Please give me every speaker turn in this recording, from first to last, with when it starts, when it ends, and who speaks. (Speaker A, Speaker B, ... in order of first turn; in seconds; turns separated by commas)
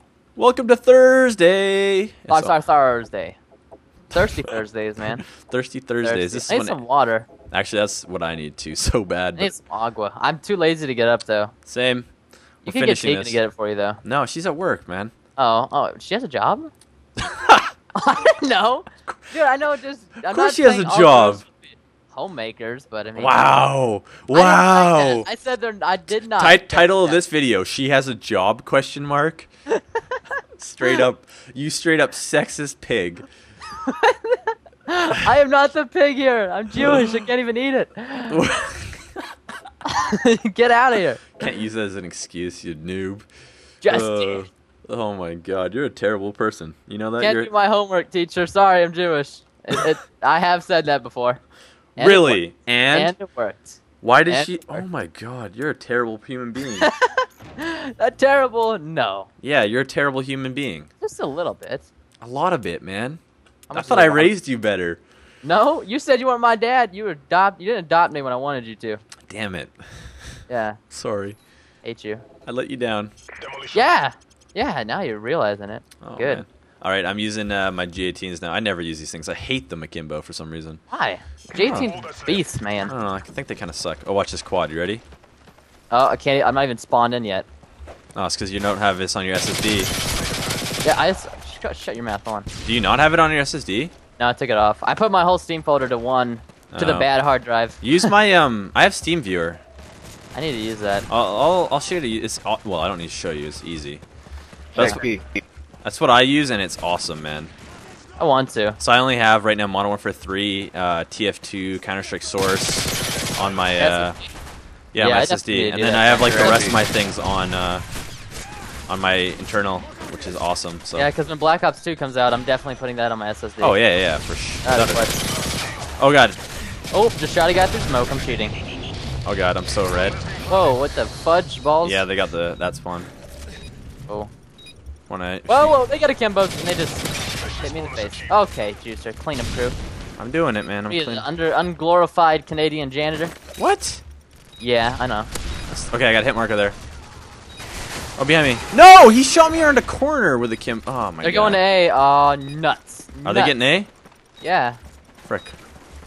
Speaker A: 0.3-2.5, Speaker B: 2.3-3.4, Speaker B: 4.1-5.2, Speaker A: 5.3-6.8, Speaker B: 6.0-7.3, Speaker A: 7.5-9.5, Speaker B: 9.4-11.5, Speaker A: 11.7-12.1, Speaker A: 12.6-13.4, Speaker B: 12.7-14.0, Speaker A: 14.0-15.1, Speaker B: 15.4-16.7, Speaker A: 17.2-17.7, Speaker B: 17.9-23.5, Speaker A: 20.3-21.4, Speaker A: 23.1-25.3, Speaker B: 24.3-27.2, Speaker A: 26.3-29.5, Speaker B: 29.7-30.2, Speaker A: 30.6-33.2, Speaker B: 33.8-38.4, Speaker A: 36.8-37.2, Speaker A: 38.3-39.2, Speaker B: 39.8-41.4, Speaker A: 41.4-43.3, Speaker B: 43.8-44.5, Speaker A: 43.8-47.5, Speaker B: 47.2-51.4, Speaker B: 52.0-54.8, Speaker A: 52.0-53.1, Speaker A: 54.0-56.9, Speaker B: 56.8-59.3, Speaker A: 59.4-60.9, Speaker B: 61.0-61.9, Speaker A: 62.2-65.0, Speaker B: 63.7-64.3, Speaker B: 65.4-69.0, Speaker A: 69.2-69.8, Speaker B: 70.5-70.8, Speaker A: 70.9-71.4, Speaker B: 71.8-72.2, Speaker A: 72.5-73.1, Speaker B: 73.7-76.4, Speaker A: 76.0-80.8, Speaker B: 80.9-82.9, Speaker A: 81.5-81.9, Speaker A: 82.9-85.0, Speaker B: 85.9-87.5, Speaker A: 88.1-89.9, Speaker B: 90.8-92.5, Speaker A: 92.6-93.9, Speaker B: 94.2-98.1, Speaker A: 96.7-97.1, Speaker A: 97.8-99.6, Speaker B: 100.3-101.1, Speaker A: 101.1-104.0, Speaker A: 104.7-105.1, Speaker B: 104.7-105.1, Speaker A: 105.8-107.5, Speaker B: 108.2-108.8, Speaker A: 108.8-114.2, Speaker B: 113.8-114.3, Speaker A: 114.9-117.8, Speaker B: 115.0-116.7, Speaker A: 118.9-121.1, Speaker B: 121.0-123.8, Speaker A: 123.6-125.0, Speaker B: 124.6-125.2, Speaker A: 126.0-126.4, Speaker B: 126.9-128.5, Speaker A: 129.2-130.2, Speaker B: 130.5-132.0, Speaker A: 131.8-133.1, Speaker A: 135.1-135.8, Speaker B: 135.5-139.8, Speaker A: 140.2-141.3, Speaker B: 140.9-143.3, Speaker A: 143.6-144.0, Speaker B: 144.6-145.3, Speaker A: 145.7-146.8, Speaker A: 148.2-151.6, Speaker B: 151.2-153.5, Speaker A: 153.2-153.9, Speaker B: 154.4-154.8, Speaker A: 155.2-155.6